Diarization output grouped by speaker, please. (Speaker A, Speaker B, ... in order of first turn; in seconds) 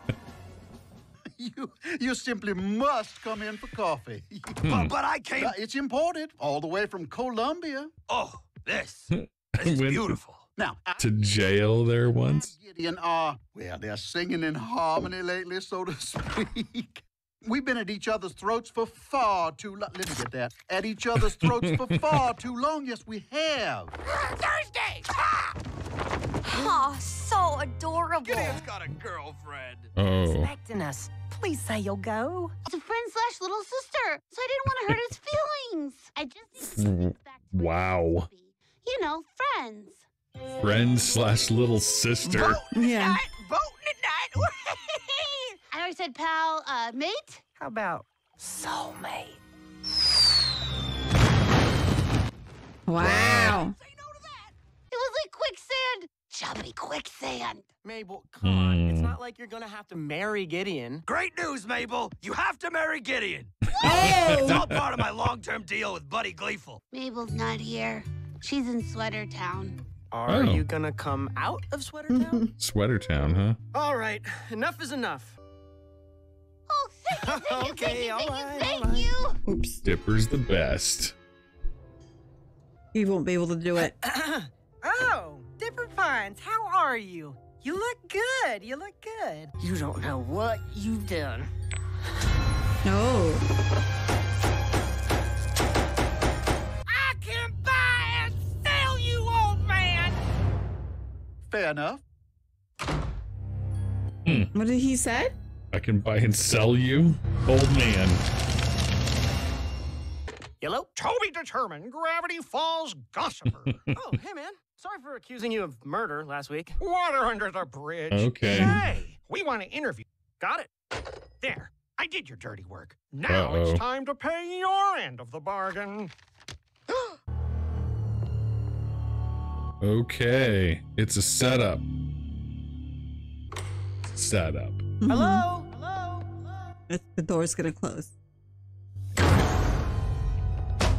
Speaker A: 1.4-4.6, 5.4-7.9, 10.6-11.2, 12.2-23.9, 101.5-102.0
Speaker B: 4.7-4.9, 9.1-10.2, 11.0-12.5, 21.2-22.3, 29.9-30.5, 36.8-38.3, 40.6-42.6, 53.0-53.6, 58.4-59.2, 63.8-64.7, 70.3-70.7, 72.6-73.6, 79.8-81.2, 104.2-104.5, 105.7-108.2, 118.1-118.8, 123.2-123.8, 129.8-131.9, 134.1-134.9
Speaker C: 4.7-5.6, 8.1-10.4, 24.2-25.2, 28.2-29.9, 61.1-66.8
Speaker D: 26.4-28.6
Speaker E: 30.3-32.5, 42.8-43.2, 44.6-45.2, 47.6-48.0, 84.8-89.9, 96.9-100.2
Speaker F: 32.6-40.0, 45.7-47.4, 54.9-57.7, 66.9-69.8, 76.7-79.4
Speaker G: 42.7-43.2, 52.9-53.8, 63.8-64.7, 72.1-72.5, 79.5-79.8, 82.9-84.0, 92.8-93.5, 104.5-105.3, 135.0-135.5, 136.9-138.1
Speaker H: 57.8-61.0, 70.1-72.5, 73.7-75.4, 77.1-79.2, 83.8-84.5, 110.6-110.9, 113.9-116.8, 135.1-136.2
Speaker I: 111.0-113.9, 116.8-120.7, 121.4-126.1